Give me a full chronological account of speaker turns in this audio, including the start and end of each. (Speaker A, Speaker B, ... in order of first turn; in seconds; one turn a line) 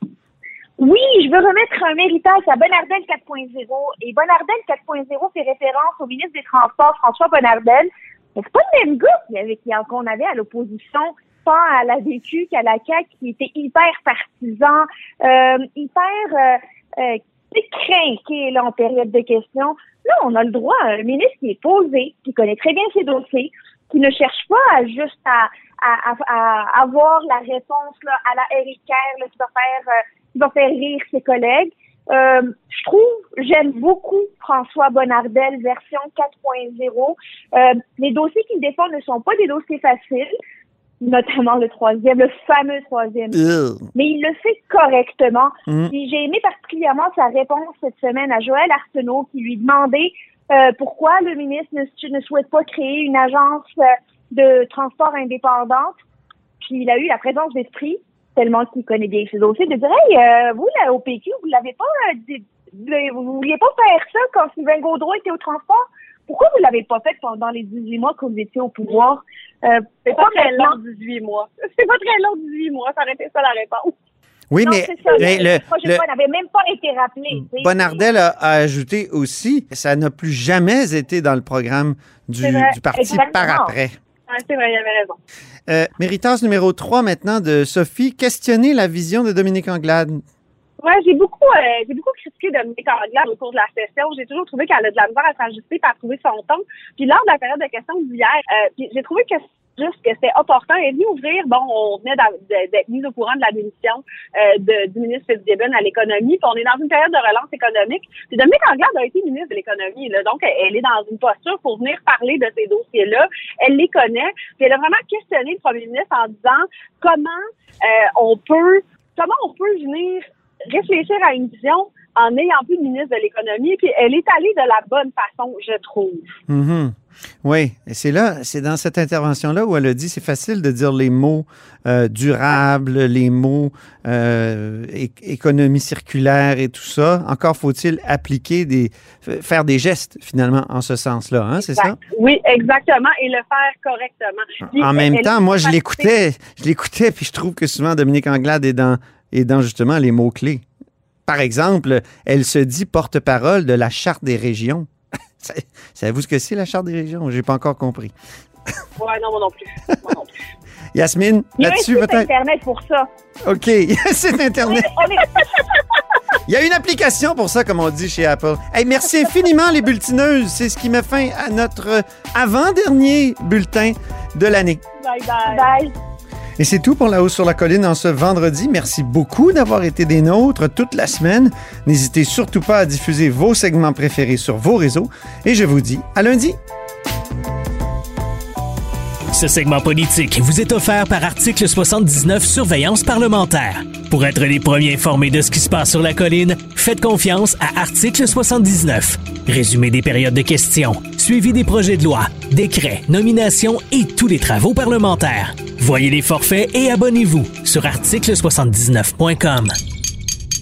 Speaker A: 0.8-40.3
Speaker A: 41.0-43.4
Speaker B: 43.3-43.9
Speaker A: 44.0-56.0
Speaker B: 45.7-45.9
Speaker A: 56.6-70.8
Speaker C: 70.1-74.0
Speaker B: 74.5-76.0
Speaker A: 74.6-78.0
Speaker B: 77.3-84.0
Speaker C: 82.4-83.2
Speaker A: 83.0-83.8
Speaker C: 84.3-85.2
Speaker B: 85.7-90.2
Speaker C: 90.8-126.4
Speaker B: 126.5-142.0
Speaker C: 141.6-146.1
Speaker B: 144.7-150.6
Speaker B: 151.3-154.9
Speaker B: 155.4-158.1
Speaker C: 159.0-160.3
Speaker B: 160.9-162.3
Speaker A: 161.6-163.1
Speaker B: 163.5-164.9
Speaker A: 164.6-165.4
Speaker B: 166.5-174.8
Speaker C: 175.0-175.7
Speaker A: 175.5-175.9
Speaker B: 176.6-186.6
Speaker D: 189.3-209.8